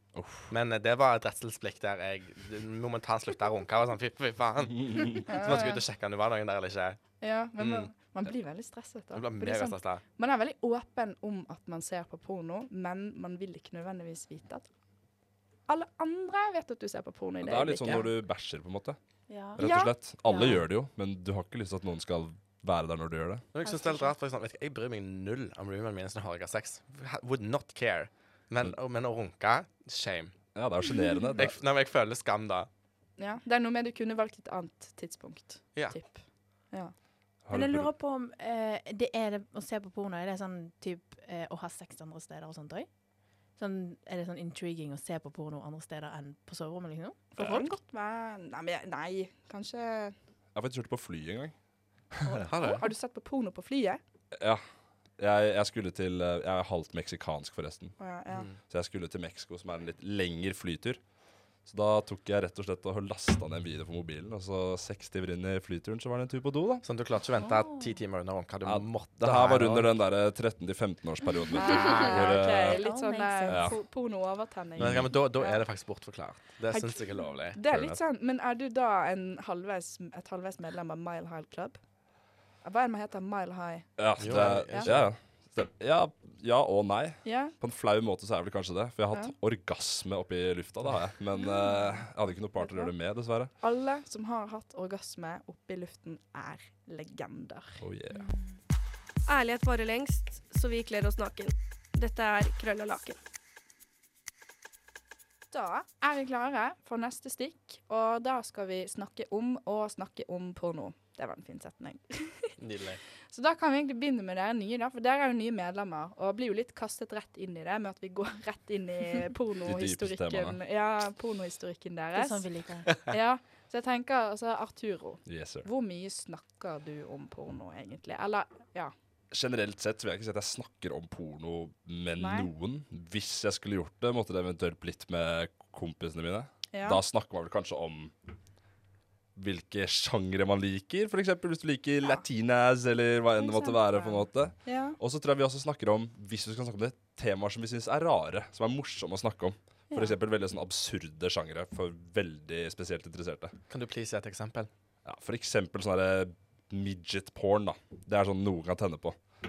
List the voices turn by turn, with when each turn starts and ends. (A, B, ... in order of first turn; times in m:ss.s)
0:00.1-0:00.5 A
0:00.5-0:07.9 B
0:04.8-0:05.2 A
0:05.3-0:05.8 C
0:07.2-0:14.7 C
0:09.1-0:10.0 B
0:15.7-0:18.1 C
0:17.4-0:23.5 A
0:19.3-0:20.6 D
0:19.6-0:20.0 C
0:23.5-0:30.5 B
0:23.6-0:24.2 D
0:30.5-0:31.6 A
0:31.4-0:32.7 B
0:33.2-0:36.9 C
0:37.4-0:37.9 A
0:37.5-0:43.0 D
0:43.5-0:47.7 D
0:47.4-0:50.2 C
0:50.5-0:52.5 A
0:52.4-0:52.8 B
0:52.7-0:54.0 C
0:54.3-1:06.8 A
0:58.0-0:58.5 C
0:58.3-0:58.6 B
1:06.8-1:10.0 B
1:07.5-1:07.9 D
1:08.6-1:12.9 A
1:11.5-1:15.7 C
1:11.7-1:13.8 D
1:13.4-1:13.8 A
1:14.8-1:15.1 A
1:14.8-1:17.6 B
1:16.7-1:21.9 C
1:17.7-1:18.0 A
1:22.6-1:24.9 C
1:24.0-1:33.5 A
1:24.2-1:25.1 B
1:27.2-1:27.5 C
1:31.4-1:37.8 C
1:37.8-1:38.3 A
1:38.1-1:38.6 D
1:39.3-1:43.2 E
1:45.5-1:52.6 C
1:52.6-1:53.0 B
1:53.3-2:08.9 C
1:59.7-2:00.6 A
2:02.2-2:03.0 D
2:05.2-2:05.7 A
2:09.3-2:18.1 A
2:12.2-2:12.5 C
2:16.7-2:17.0 C
2:19.4-2:33.6 A
2:23.6-2:25.0 C
2:29.9-2:30.2 C
2:33.7-2:34.7 B
2:35.0-2:39.3 A